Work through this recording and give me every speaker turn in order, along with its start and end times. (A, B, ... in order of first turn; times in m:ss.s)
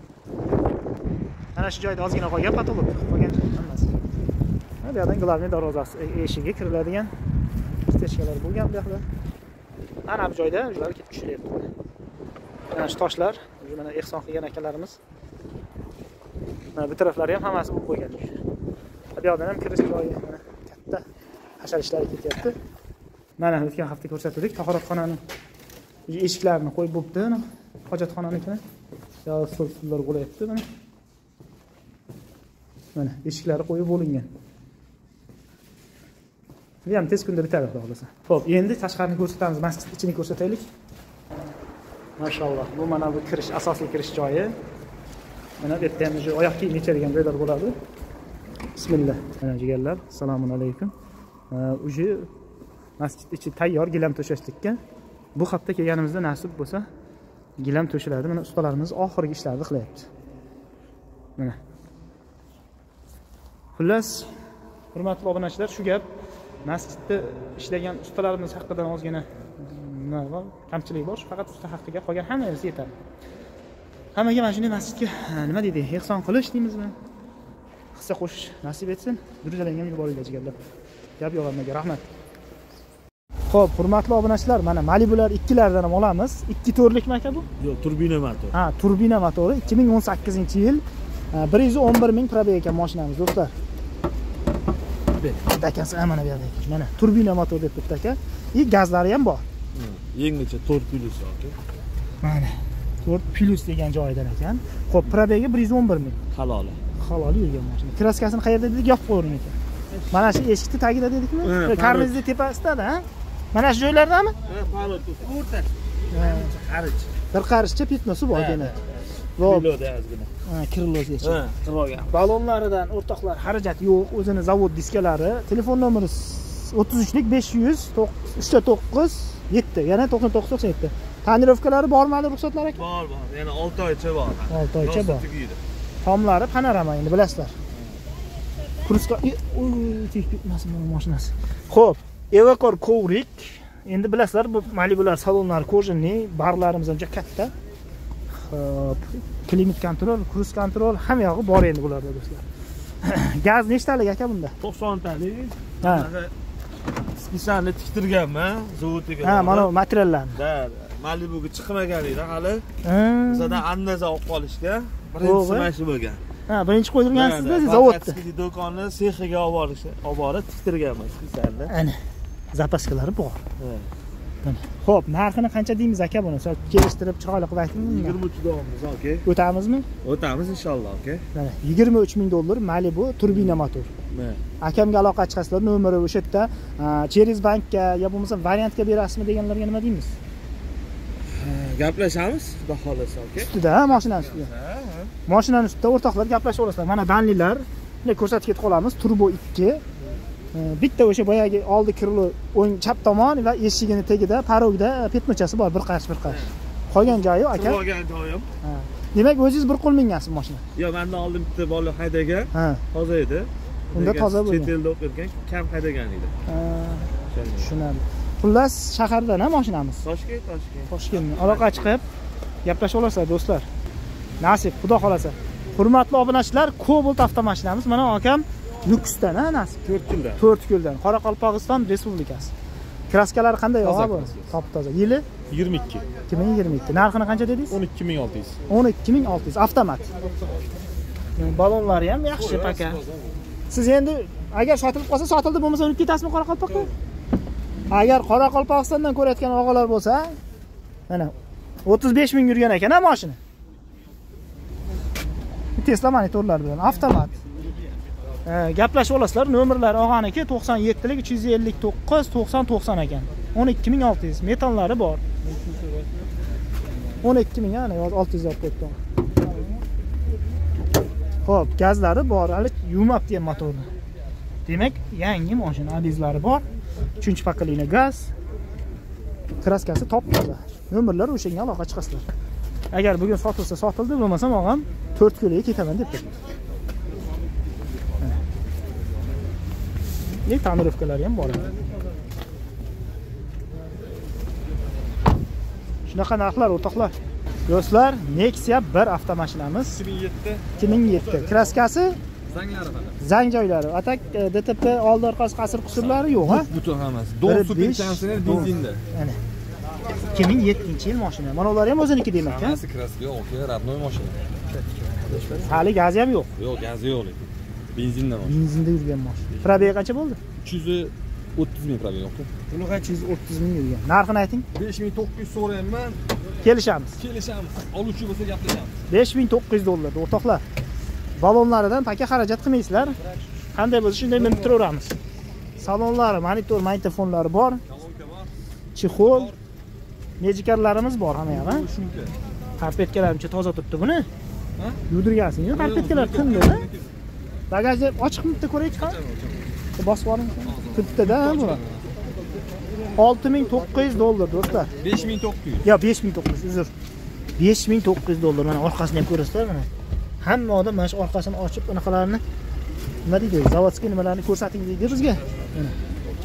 0:01.6-0:03.9 A
0:04.8-0:07.1 A
0:07.9-0:09.0 A
0:10.0-0:11.7 A
0:12.7-0:15.0 A
0:16.8-0:18.4 A
0:19.2-0:21.1 A
0:21.6-0:22.6 A
0:23.4-0:25.2 A
0:26.1-0:28.6 A
0:29.3-0:30.6 A
0:33.0-0:34.3 A
0:36.8-0:40.6 A
0:42.2-0:44.6 A
0:45.6-0:47.8 A
0:48.8-0:50.9 A
0:51.5-0:52.3 A
0:53.0-0:54.8 A
0:55.4-0:56.9 A
0:57.6-1:00.1 A
1:03.8-1:04.3 A
1:04.9-1:06.1 A
1:06.6-1:12.9 A
1:14.2-1:17.0 A
1:17.9-1:20.6 A
1:21.2-1:22.0 A
1:23.5-1:27.5 A
1:27.6-1:28.2 B
1:27.7-1:28.5 C
1:28.5-1:33.5 A
1:35.5-1:39.4 A
1:39.8-1:41.5 B
1:40.2-1:41.4 C
1:42.2-1:46.2 A
1:46.4-1:46.8 B
1:47.0-1:49.6 A
1:50.1-1:54.4 A
1:51.5-1:52.1 B
1:54.5-1:55.7 B
1:56.1-1:56.5 A
1:56.6-1:56.9 B
1:57.3-1:58.8 A
1:58.4-1:58.7 B
1:59.4-1:59.7 A
1:59.5-2:00.3 C
1:59.6-2:00.3 B
2:00.5-2:01.5 A
2:01.2-2:01.6 C
2:01.3-2:02.1 B
2:02.1-2:12.8 A
2:12.8-2:15.4 C
2:12.9-2:13.9 B
2:14.5-2:15.3 A
2:14.9-2:15.6 B
2:16.0-2:17.5 A
2:18.8-2:27.5 A
2:28.3-2:32.4 A
2:33.0-2:34.6 A
2:34.6-2:35.0 C
2:34.6-2:35.5 B
2:35.8-2:36.1 A
2:35.8-2:36.3 C
2:37.3-2:39.5 C
2:37.3-2:37.9 B
2:38.6-2:39.7 B
2:39.2-2:40.4 A
2:40.4-2:42.6 C
2:40.5-2:40.8 B
2:41.3-2:41.6 B
2:42.8-2:43.6 A
2:43.3-2:46.2 C
2:43.4-2:43.9 B
2:45.1-2:45.7 B
2:45.2-2:45.7 A
2:46.5-2:48.2 A
2:47.2-2:51.6 B
2:47.5-2:51.7 C
2:51.7-2:52.0 A
2:52.5-2:53.4 A
2:54.4-2:58.2 A
2:57.8-2:59.2 C
2:58.0-2:59.2 B
2:59.2-2:59.9 A
3:00.0-3:01.2 C
3:00.1-3:01.2 B
3:01.3-3:03.9 A
3:04.6-3:10.1 A
3:11.4-3:13.5 C
3:13.4-3:14.5 A
3:14.6-3:15.1 C
3:15.3-3:19.8 A
3:20.5-3:27.8 A
3:27.4-3:28.5 C
3:28.6-3:30.6 A
3:30.8-3:36.3 C
3:31.0-3:32.1 B
3:32.5-3:32.8 A
3:33.9-3:34.7 A
3:34.2-3:34.7 B
3:36.5-3:40.0 A
3:40.0-3:40.9 C
3:40.4-3:41.7 B
3:40.9-3:42.0 A
3:42.6-3:43.7 A
3:44.4-3:49.8 A
3:49.8-3:50.4 B
3:50.4-3:52.5 A
3:53.1-3:55.3 A
3:53.8-3:54.5 B
3:55.5-3:56.1 B
3:56.3-3:57.8 A
3:57.7-3:58.6 B
3:58.7-4:00.1 A
4:01.4-4:03.0 A
4:02.4-4:03.2 B
4:03.7-4:06.9 A
4:07.9-4:10.3 A
4:11.8-4:13.4 A
4:15.8-4:17.4 A
4:18.5-4:25.2 A
4:25.5-4:25.9 B
4:27.2-4:29.0 A
4:31.4-4:33.9 A
4:34.7-4:36.6 A
4:37.2-4:38.3 A
4:39.6-4:42.3 A
4:42.9-4:46.4 A
4:50.4-4:51.8 A
4:56.1-4:57.2 A
4:57.7-5:00.0 A
5:00.0-5:00.7 B
5:00.8-5:02.2 A
5:02.5-5:03.2 B
5:03.2-5:06.7 A
5:05.9-5:09.0 B
5:07.4-5:09.4 A
5:10.3-5:12.8 A
5:12.4-5:14.4 B
5:14.7-5:16.5 A
5:15.3-5:15.7 B
5:16.6-5:18.6 B
5:18.4-5:20.4 A
5:20.6-5:22.5 B
5:22.7-5:24.6 A
5:24.8-5:26.2 B
5:26.6-5:27.2 A
5:27.2-5:29.0 B
5:29.1-5:30.6 A
5:31.4-5:33.2 A
5:33.7-5:35.1 A
5:35.8-5:37.8 A
5:37.9-5:38.5 B
5:39.0-5:39.5 A
5:39.1-5:39.6 B
5:40.4-5:41.9 A
5:41.5-5:42.3 B
5:42.8-5:44.3 A
5:45.1-5:46.9 A
5:45.7-5:47.1 B
5:47.7-5:49.2 A
5:49.0-5:49.7 B
5:50.0-5:51.8 A
5:50.7-5:52.1 B
5:53.2-5:54.9 A
5:55.0-5:55.8 B
5:55.8-5:56.9 A
5:57.6-5:59.9 A
6:00.4-6:02.4 A
6:03.2-6:05.9 A